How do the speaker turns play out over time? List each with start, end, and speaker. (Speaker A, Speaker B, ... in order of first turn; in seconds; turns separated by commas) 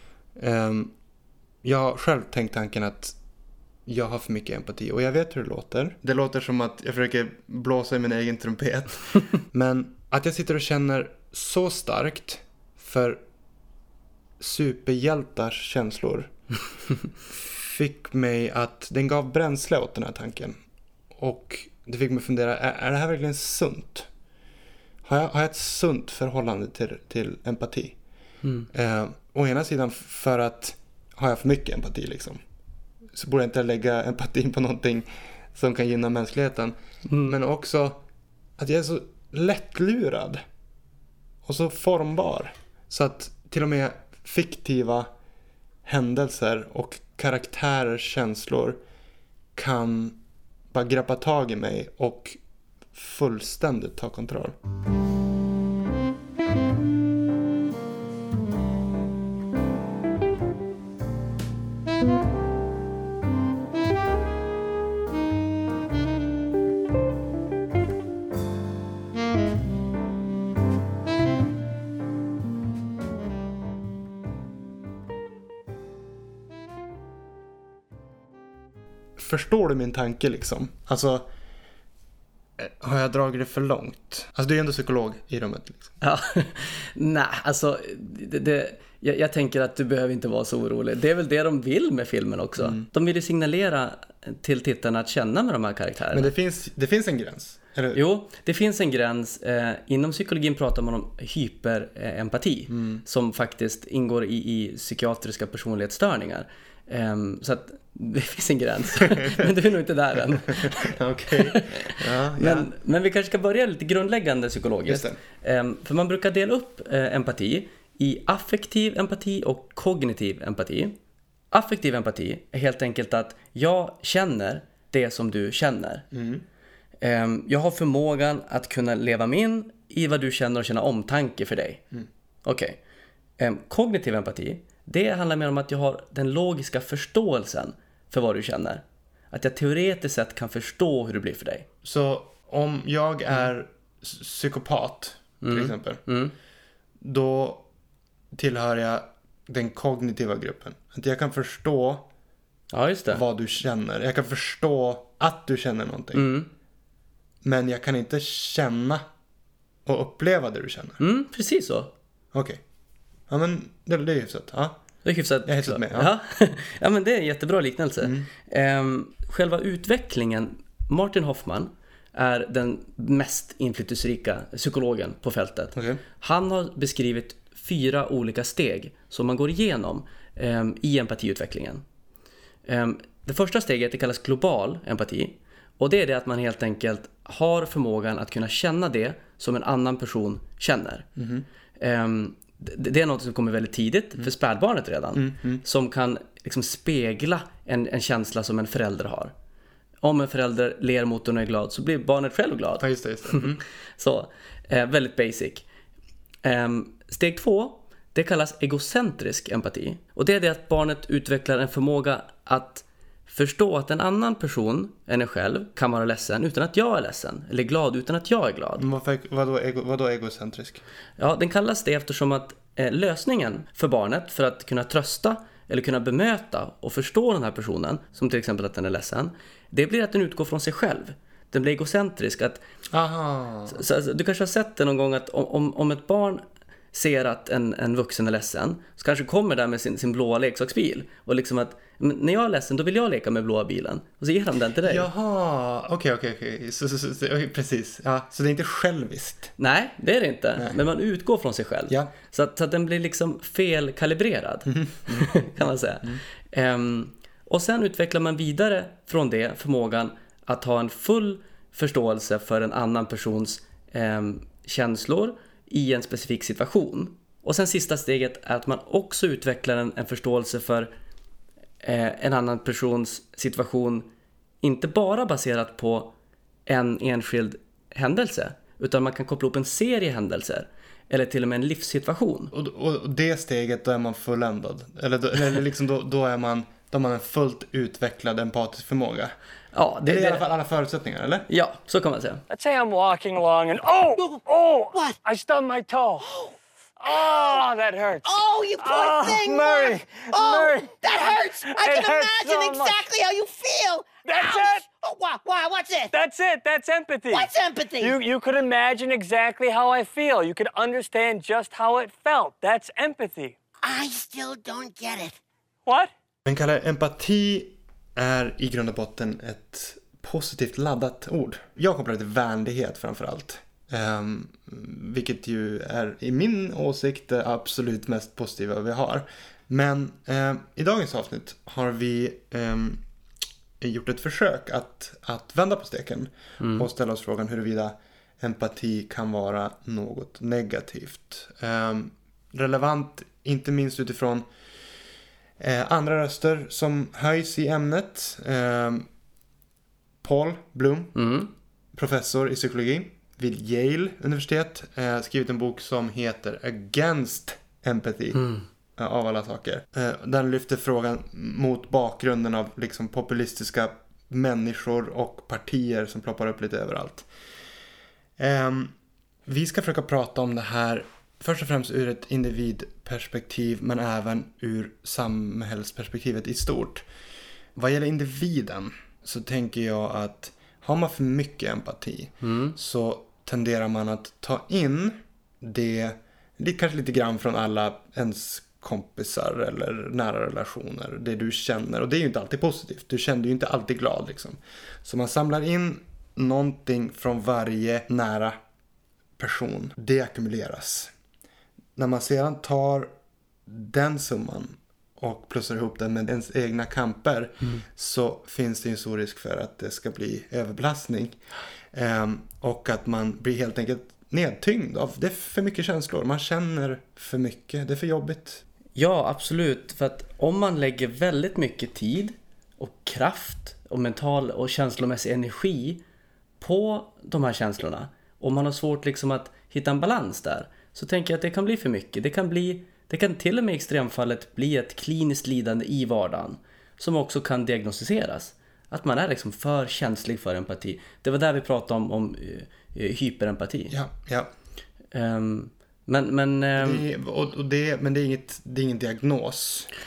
Speaker A: 0.4-0.9, Speaker A: 1.6-3.2, Speaker A: 3.9-13.2, Speaker A: 14.4-16.3, Speaker A: 17.3-20.6, Speaker A: 21.2-24.1, Speaker A: 25.1-28.0, Speaker A: 28.7-32.4, Speaker A: 33.2-38.0, Speaker B: 37.1-37.4, Speaker A: 38.6-40.4, Speaker A: 41.4-45.1, Speaker A: 45.9-48.8, Speaker A: 49.6-50.2, Speaker A: 50.7-52.4, Speaker A: 52.9-54.5, Speaker A: 79.2-81.3, Speaker A: 82.6-86.0, Speaker B: 86.0-96.3, Speaker A: 92.6-92.9, Speaker A: 96.1-98.0, Speaker B: 97.9-111.0, Speaker A: 102.7-103.0, Speaker A: 110.7-112.7, Speaker B: 111.5-120.9, Speaker A: 114.9-115.2, Speaker B: 121.5-126.0, Speaker A: 126.1-126.4, Speaker B: 127.0-131.8, Speaker B: 132.5-132.8, Speaker B: 133.4-141.7, Speaker A: 141.8-146.0, Speaker B: 145.4-146.3, Speaker A: 147.0-147.7, Speaker A: 148.3-152.1, Speaker B: 152.7-153.2, Speaker A: 153.1-156.3, Speaker B: 156.1-156.5, Speaker A: 157.4-159.0, Speaker A: 159.9-161.0, Speaker B: 161.0-161.9, Speaker A: 162.3-162.6, Speaker A: 163.3-164.8, Speaker B: 165.1-181.8, Speaker A: 165.5-166.1, Speaker A: 168.0-168.3, Speaker A: 175.8-176.0, Speaker B: 182.7-191.1, Speaker A: 191.2-191.4, Speaker B: 191.8-199.3, Speaker A: 195.2-195.6, Speaker B: 200.0-205.7, Speaker A: 202.8-203.6, Speaker B: 206.4-218.8, Speaker A: 218.8-220.8, Speaker B: 221.2-232.6, Speaker A: 232.9-233.8, Speaker B: 233.7-236.4, Speaker B: 236.9-245.1, Speaker A: 244.8-249.5, Speaker B: 249.6-270.9, Speaker A: 254.7-255.3, Speaker B: 271.8-274.1, Speaker B: 274.6-276.1, Speaker B: 276.7-282.5, Speaker A: 282.5-289.3, Speaker B: 289.7-290.4, Speaker A: 290.1-291.5, Speaker B: 291.5-292.4, Speaker C: 292.5-303.1, Speaker D: 298.3-306.1, Speaker C: 304.2-305.2, Speaker C: 306.1-313.6, Speaker D: 307.3-308.1, Speaker D: 313.8-315.4, Speaker A: 316.5-333.0, Speaker A: 333.8-344.5, Speaker B: 336.6-336.9, Speaker A: 345.6-349.1, Speaker A: 350.2-351.2, Speaker B: 351.1-351.5, Speaker A: 351.9-358.4, Speaker B: 358.3-358.6, Speaker A: 359.0-367.3, Speaker A: 368.4-368.9, Speaker A: 369.5-377.1, Speaker A: 377.8-398.6, Speaker B: 382.4-382.8, Speaker A: 399.4-401.1, Speaker A: 402.0-403.1, Speaker A: 403.7-411.4, Speaker A: 411.9-418.6, Speaker B: 419.0-426.0, Speaker B: 426.6-443.9, Speaker A: 443.9-444.5, Speaker B: 445.1-447.1, Speaker A: 446.8-449.9